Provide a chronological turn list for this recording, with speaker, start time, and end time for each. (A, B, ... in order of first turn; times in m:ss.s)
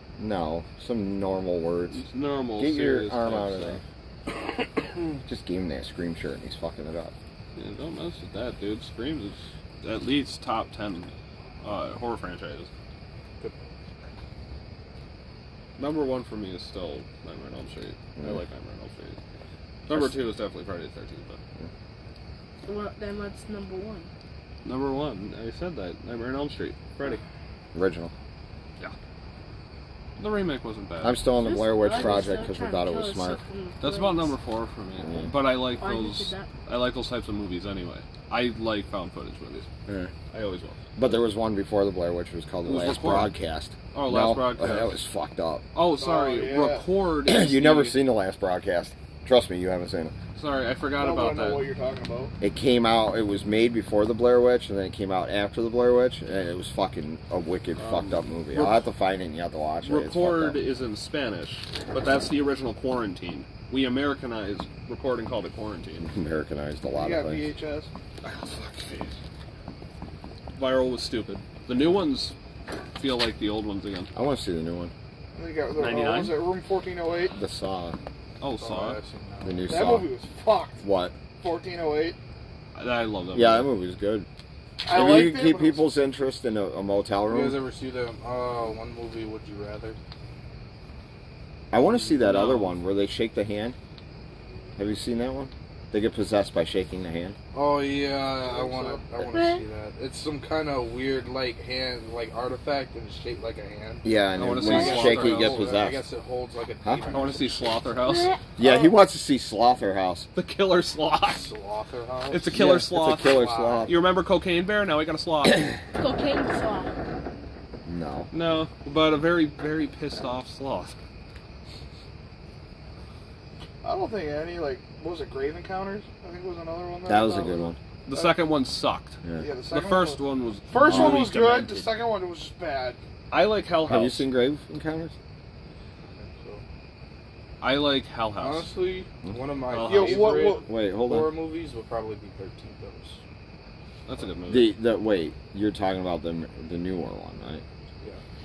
0:00.2-0:02.0 A
0:01.9-0:03.8 B
0:02.6-0:03.8 A
0:05.2-0:07.1 A
0:07.5-0:12.7 B
0:13.4-0:13.7 C
0:15.8-0:19.2 B
0:19.8-0:21.4 B
0:19.9-0:20.2 A
0:22.6-0:24.1 D
0:24.6-0:27.2 B
0:27.7-0:28.1 A
0:30.2-0:31.2 B
0:31.0-0:33.4 A
0:31.4-0:34.3 D
0:33.8-0:39.7 B
0:35.0-0:35.3 A
0:35.8-0:36.5 D
0:39.9-0:40.1 A
0:40.3-0:40.8 B
0:41.0-0:45.6 A
0:42.6-0:43.3 B
0:43.9-0:44.9 B
0:45.7-0:48.0 B
0:46.0-0:46.8 E
0:47.2-0:50.1 A
0:50.4-0:51.6 B
0:51.0-0:52.3 E
0:52.4-1:00.6 A
0:57.8-0:58.8 B
0:59.8-1:06.1 B
1:06.0-1:07.5 A
1:06.9-1:07.9 E
1:08.2-1:09.2 B
1:10.5-1:12.3 B
1:13.0-1:14.1 B
1:14.1-1:14.9 A
1:15.3-1:17.4 E
1:15.8-1:16.5 B
1:17.3-1:18.0 A
1:18.4-1:19.0 B
1:18.6-1:19.9 C
1:19.4-1:20.1 A
1:19.7-1:20.8 E
1:20.8-1:21.2 A
1:21.3-1:22.2 E
1:22.7-1:23.7 B
1:23.3-1:24.3 A
1:24.8-1:25.8 E
1:24.9-1:27.6 A
1:27.3-1:30.0 C
1:31.7-1:33.8 A
1:32.0-1:32.7 B
1:34.8-1:37.4 A
1:37.5-1:47.9 C
1:39.3-1:39.6 D
1:44.0-1:46.0 A
1:44.3-1:45.7 B
1:46.8-1:47.1 A
1:47.1-1:48.3 B
1:48.0-1:48.5 D
1:48.6-1:50.3 A
1:48.6-1:48.9 E
1:50.4-1:51.5 B
1:51.3-1:52.6 C
1:52.3-1:55.7 B
1:52.5-1:54.0 A
1:53.2-1:53.9 C
1:56.0-1:56.9 D
1:57.8-1:58.3 A
1:58.3-2:00.9 B
2:03.8-2:07.6 E
2:07.0-2:07.8 A
2:08.1-2:11.9 B
2:08.1-2:08.4 E
2:09.2-2:09.5 A
2:09.4-2:13.0 E
2:10.8-2:11.3 A
2:13.3-2:14.3 B
2:13.8-2:15.1 A
2:16.1-2:16.6 C
2:17.6-2:18.7 B
2:18.4-2:23.2 C
2:19.7-2:20.5 B
2:19.8-2:20.6 E
2:20.6-2:21.3 A
2:24.0-2:24.7 B
2:24.5-2:27.6 A